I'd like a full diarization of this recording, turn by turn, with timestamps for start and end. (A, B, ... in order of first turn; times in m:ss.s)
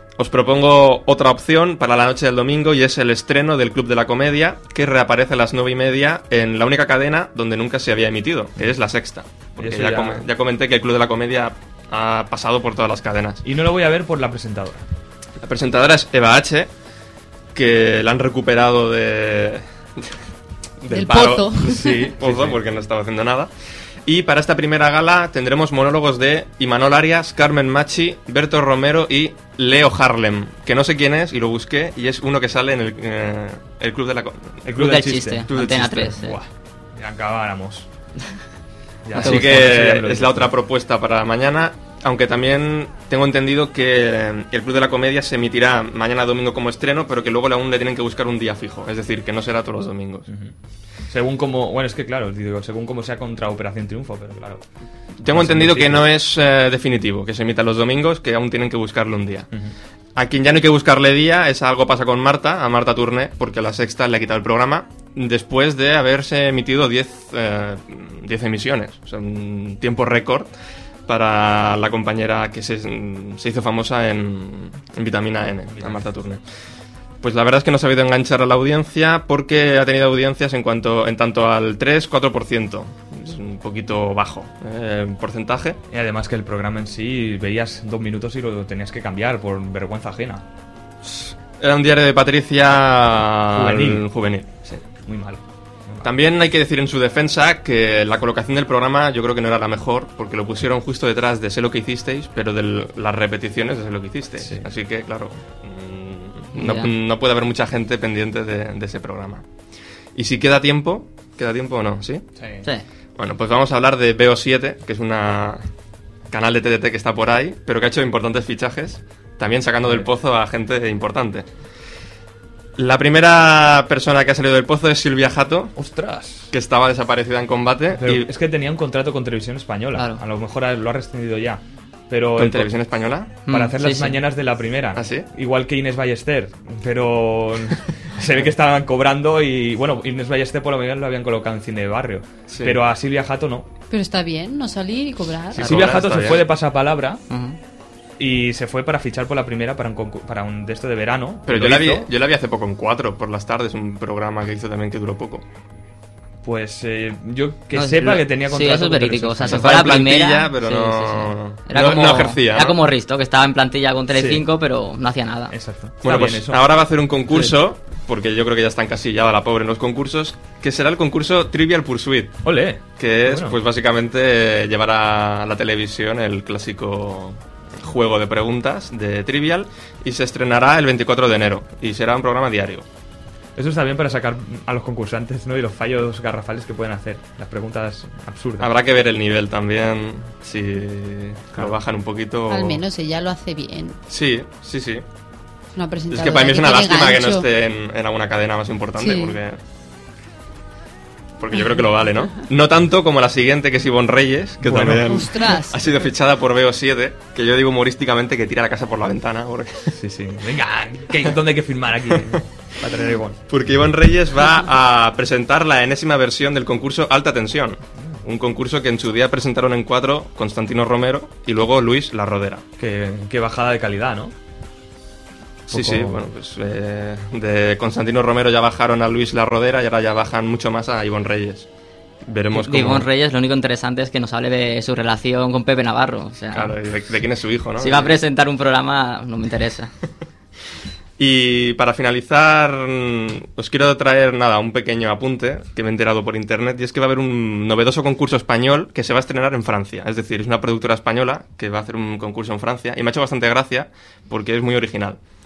0:00.2-0:13.4 A
0:09.6-0:10.2 B
0:13.4-0:14.8 B
0:15.4-0:16.7 A
0:17.5-0:20.1 A
0:20.8-0:23.5 A
0:20.9-0:22.1 C
0:22.2-0:22.6 B
0:24.1-0:34.6 A
0:34.6-0:37.9 B
0:34.7-0:36.4 D
0:35.5-0:36.1 A
0:39.0-0:40.5 B
0:39.2-0:50.3 A
0:39.2-0:39.6 D
0:50.3-0:50.5 B
0:51.1-0:54.6 B
0:55.2-0:59.5 A
0:55.3-0:56.1 B
1:00.2-1:10.5 A
1:11.1-1:16.4 A
1:15.7-1:16.1 B
1:17.2-1:25.8 A
1:25.9-1:30.4 B
1:31.0-1:34.8 A
1:33.6-1:34.1 B
1:34.8-1:36.1 B
1:36.0-1:49.4 A
1:44.4-1:44.7 B
1:46.5-1:46.9 D
1:50.2-1:52.2 A
1:52.4-1:52.7 B
1:53.2-1:55.6 A
1:56.3-2:01.5 A
2:02.8-2:05.7 A
2:05.8-2:06.5 B
2:06.5-2:08.3 A
2:07.9-2:12.7 B
2:10.0-2:10.2 D
2:12.4-2:13.4 A
2:13.5-2:14.2 D
2:13.5-2:23.7 B
2:14.9-2:15.3 A
2:22.5-2:22.8 A
2:23.9-2:25.7 C
2:25.6-2:26.5 A
2:25.6-2:27.2 B
2:27.3-2:27.6 D
2:28.2-2:32.1 B
2:31.5-2:35.4 A
2:36.4-2:40.0 B
2:37.7-2:45.6 D
2:39.4-2:42.8 A
2:44.1-2:44.4 B
2:45.5-2:46.6 B
2:46.0-2:52.4 A
2:47.3-2:47.6 B
2:52.4-2:53.6 B
2:53.0-3:02.9 A
3:03.6-3:08.7 B
3:08.6-3:12.8 A
3:12.5-3:14.0 C
3:14.1-3:15.0 A
3:15.8-3:17.5 C
3:16.1-3:19.6 A
3:19.0-3:19.4 C
3:21.4-3:29.9 A
3:24.6-3:25.2 B
3:25.1-3:25.8 C
3:30.0-3:33.4 B
3:33.5-3:42.6 A
3:42.8-3:44.3 B
3:45.7-3:46.3 B
3:45.7-3:51.7 A
3:52.3-3:53.1 A
3:52.5-3:56.8 D
3:56.5-3:58.2 A
3:57.8-3:59.9 D
4:01.2-4:15.2 A